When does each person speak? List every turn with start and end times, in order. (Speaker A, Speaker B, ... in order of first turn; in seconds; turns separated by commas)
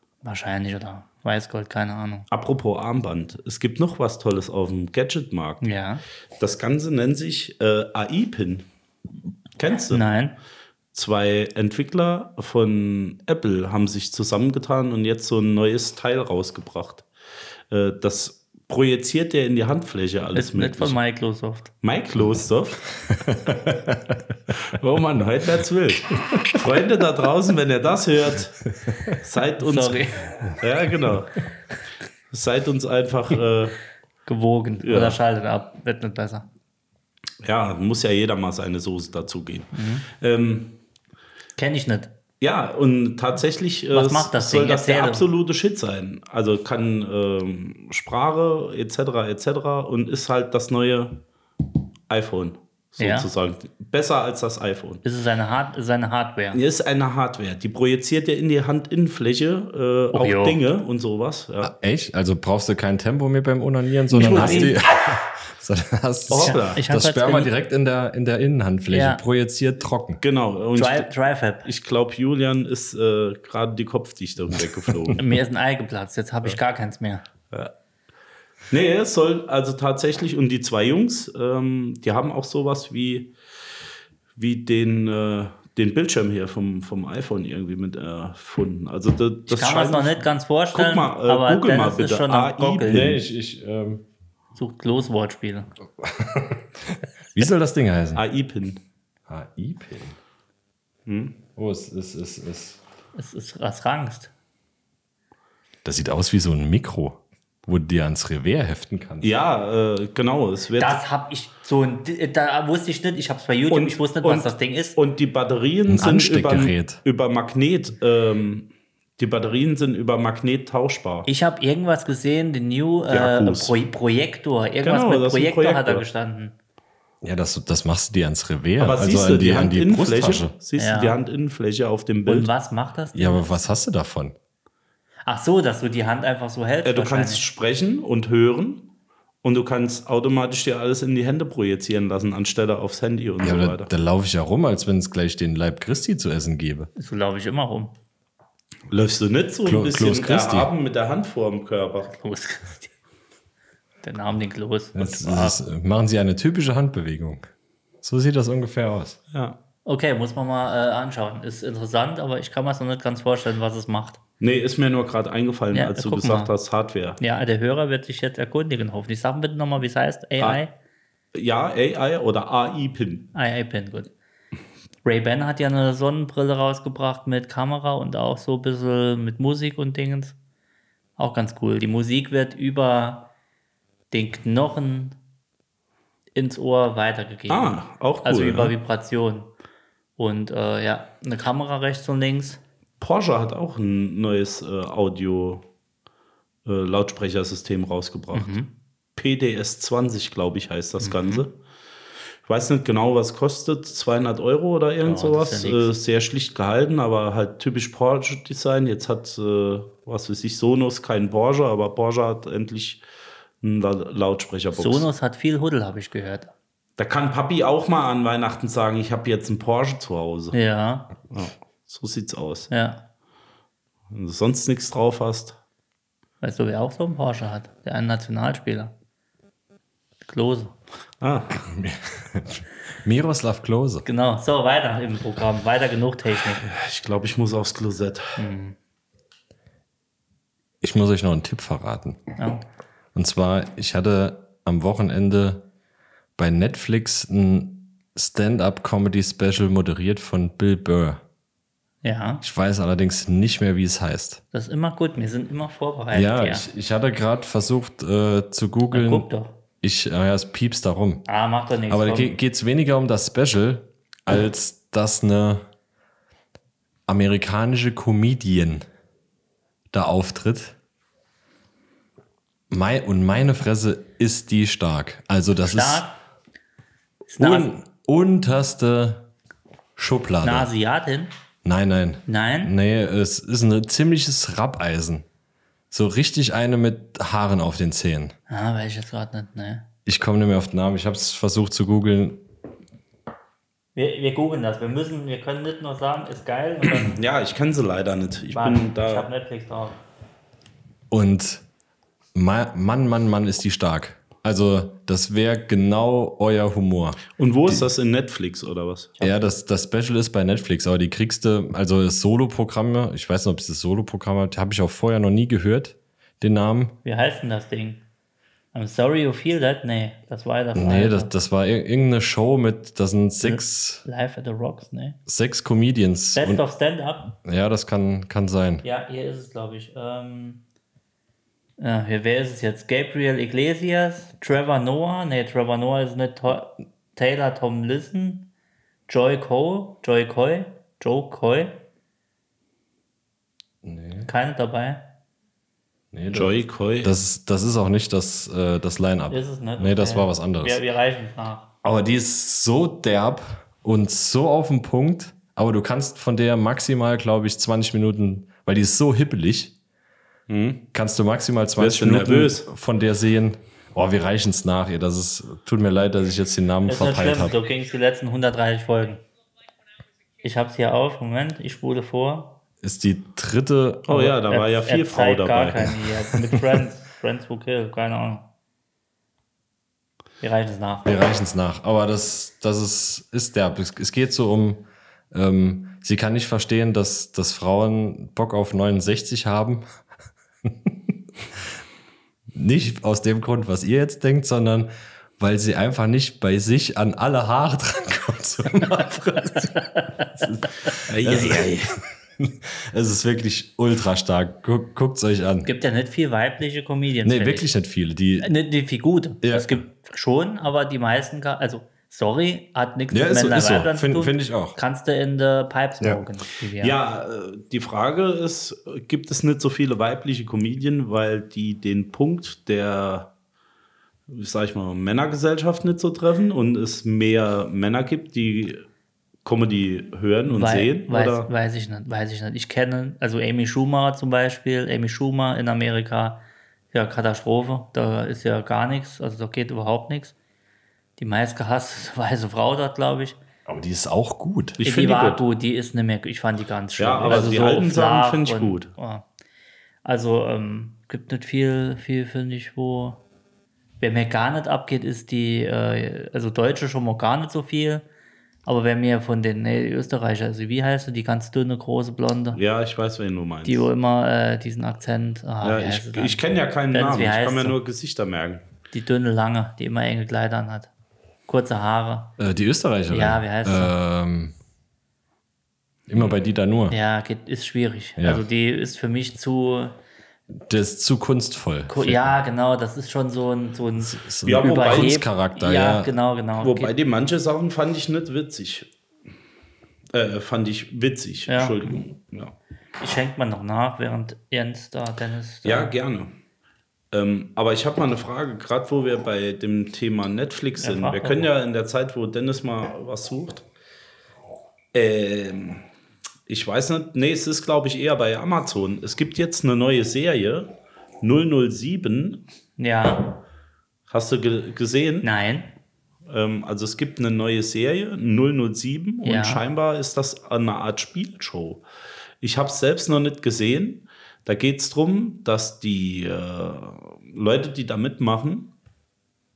Speaker A: 0.2-2.3, Speaker B: 2.3-5.7, Speaker A: 5.6-6.0, Speaker B: 6.4-8.7, Speaker B: 9.6-10.1, Speaker A: 9.9-10.3, Speaker B: 10.9-17.1, Speaker B: 17.7-21.0, Speaker A: 20.4-21.7, Speaker B: 21.8-22.9, Speaker C: 23.1-24.2, Speaker B: 24.6-31.4, Speaker A: 29.6-30.5, Speaker B: 32.3-33.8, Speaker A: 34.2-36.5, Speaker B: 34.8-35.2, Speaker B: 37.4-40.8, Speaker A: 39.7-40.0, Speaker A: 41.6-42.1, Speaker B: 42.4-51.2, Speaker A: 43.9-45.2, Speaker B: 52.1-55.0, Speaker A: 53.0-53.3, Speaker A: 55.0-56.6, Speaker B: 56.5-61.7, Speaker A: 60.1-60.6, Speaker C: 61.6-70.2, Speaker B: 64.1-64.8, Speaker A: 64.1-64.8, Speaker B: 66.3-66.8, Speaker A: 66.3-67.5, Speaker A: 68.9-69.2, Speaker B: 70.2-71.1, Speaker A: 70.8-71.7, Speaker B: 71.6-75.2, Speaker A: 75.2-77.2, Speaker B: 78.7-83.3, Speaker B: 84.4-93.2, Speaker A: 89.5-93.0, Speaker C: 92.9-94.0, Speaker A: 94.5-95.7, Speaker C: 96.0-98.2, Speaker B: 98.1-98.8, Speaker C: 99.3-100.2, Speaker B: 101.0-101.4, Speaker C: 101.5-102.8, Speaker A: 103.2-104.3, Speaker C: 105.8-109.3, Speaker B: 109.2-111.0, Speaker A: 110.8-115.0, Speaker B: 113.7-121.3, Speaker C: 115.9-117.0, Speaker A: 121.2-126.5, Speaker B: 123.1-123.7, Speaker B: 124.8-126.0, Speaker C: 127.2-130.5, Speaker B: 128.8-132.5, Speaker A: 130.8-131.2, Speaker A: 132.2-133.5, Speaker C: 133.1-134.4, Speaker A: 135.2-137.4, Speaker B: 136.8-138.9, Speaker B: 139.4-143.9, Speaker C: 143.4-146.9, Speaker A: 147.0-147.9, Speaker B: 148.9-152.1, Speaker C: 149.6-150.7, Speaker A: 152.0-152.9, Speaker A: 154.0-155.6, Speaker C: 154.9-157.5, Speaker C: 158.0-159.2, Speaker B: 159.3-159.6, Speaker A: 159.8-164.2, Speaker B: 164.4-167.2, Speaker A: 165.7-166.5, Speaker A: 167.2-170.7, Speaker B: 171.3-173.3, Speaker A: 173.3-174.1, Speaker A: 175.0-180.4, Speaker A: 181.2-183.3, Speaker A: 184.1-185.2, Speaker A: 186.3-189.5, Speaker B: 187.5-188.8, Speaker A: 190.2-192.6, Speaker B: 193.0-195.6, Speaker B: 196.6-198.6, Speaker A: 198.3-198.7, Speaker B: 199.2-201.5, Speaker A: 201.0-201.4, Speaker B: 202.5-213.0, Speaker A: 205.0-205.9, Speaker B: 213.6-215.1, Speaker A: 214.8-216.5, Speaker B: 217.0-220.6, Speaker A: 220.5-221.1, Speaker B: 221.2-222.7, Speaker A: 222.7-223.0, Speaker B: 224.1-225.6, Speaker A: 226.4-228.9, Speaker A: 230.2-230.7, Speaker B: 231.2-231.6, Speaker C: 231.6-234.1, Speaker A: 234.0-236.6, Speaker B: 236.6-238.4, Speaker A: 238.4-238.8, Speaker C: 240.8-242.2, Speaker A: 242.4-242.6, Speaker C: 243.1-245.7, Speaker C: 246.4-251.2, Speaker A: 252.0-252.4, Speaker C: 252.4-254.4, Speaker A: 254.5-256.7, Speaker C: 256.1-259.3, Speaker A: 258.9-259.6, Speaker C: 259.8-261.2, Speaker A: 261.2-262.3, Speaker C: 261.9-265.7, Speaker C: 267.1-268.8, Speaker C: 269.9-270.8, Speaker C: 272.7-276.1, Speaker A: 275.6-276.2, Speaker A: 277.3-277.7, Speaker C: 277.4-279.3, Speaker C: 280.0-280.7, Speaker A: 280.4-281.3, Speaker C: 281.6-285.2, Speaker A: 282.2-282.7, Speaker C: 285.9-288.3, Speaker A: 288.5-289.9, Speaker C: 290.1-292.4, Speaker A: 293.9-297.2, Speaker B: 297.0-299.3, Speaker A: 298.5-300.0, Speaker C: 301.1-301.6, Speaker C: 302.3-307.9, Speaker B: 307.4-309.2, Speaker C: 309.2-316.9, Speaker A: 317.0-318.0, Speaker A: 318.7-321.3, Speaker C: 320.8-324.0, Speaker A: 323.4-325.2, Speaker C: 325.3-326.6, Speaker A: 326.3-327.3, Speaker C: 327.4-328.8, Speaker A: 328.8-330.6, Speaker A: 331.8-338.5, Speaker A: 339.1-341.8, Speaker C: 343.8-344.3, Speaker A: 344.2-345.1, Speaker C: 346.1-350.8, Speaker B: 346.3-347.1, Speaker A: 349.3-351.7, Speaker C: 351.8-359.7, Speaker B: 360.5-360.9, Speaker C: 360.9-367.6, Speaker B: 361.8-362.7, Speaker A: 366.9-369.2, Speaker A: 370.4-372.6, Speaker C: 372.8-374.2, Speaker B: 374.1-376.0, Speaker A: 374.1-378.5, Speaker C: 376.4-376.7, Speaker A: 380.4-381.1, Speaker C: 381.0-389.8, Speaker C: 390.6-391.0, Speaker C: 392.5-399.8, Speaker A: 399.8-400.3, Speaker C: 400.4-405.7, Speaker B: 401.1-401.9, Speaker A: 405.6-407.7, Speaker C: 407.2-408.5, Speaker A: 408.4-417.0, Speaker C: 409.4-409.8, Speaker C: 413.1-414.8, Speaker B: 416.8-423.3, Speaker B: 424.3-428.9, Speaker B: 429.4-431.5, Speaker A: 430.5-440.3, Speaker A: 441.2-443.4, Speaker C: 443.7-444.8, Speaker B: 444.8-445.4, Speaker A: 444.8-449.2, Speaker B: 447.0-448.9, Speaker A: 450.0-453.2, Speaker A: 454.0-458.0, Speaker A: 458.7-462.6, Speaker B: 462.5-463.9, Speaker A: 463.6-466.4, Speaker B: 465.6-468.6, Speaker A: 466.9-467.8, Speaker A: 468.9-470.9, Speaker A: 471.5-472.3, Speaker C: 472.4-474.5, Speaker A: 473.1-473.9, Speaker C: 476.1-477.0, Speaker A: 476.9-480.0, Speaker C: 478.2-478.4, Speaker C: 480.5-482.3, Speaker A: 481.9-486.9, Speaker C: 484.0-486.1, Speaker B: 484.4-485.1, Speaker B: 486.6-488.9, Speaker B: 490.1-492.5, Speaker A: 491.5-491.8, Speaker A: 493.0-495.9, Speaker B: 495.6-496.3, Speaker B: 497.1-503.6, Speaker A: 500.8-501.5, Speaker B: 504.9-505.9, Speaker B: 506.5-512.5, Speaker A: 512.8-513.4, Speaker B: 514.1-515.3, Speaker A: 515.2-515.7, Speaker B: 516.3-521.8, Speaker A: 519.2-519.6, Speaker B: 522.4-528.7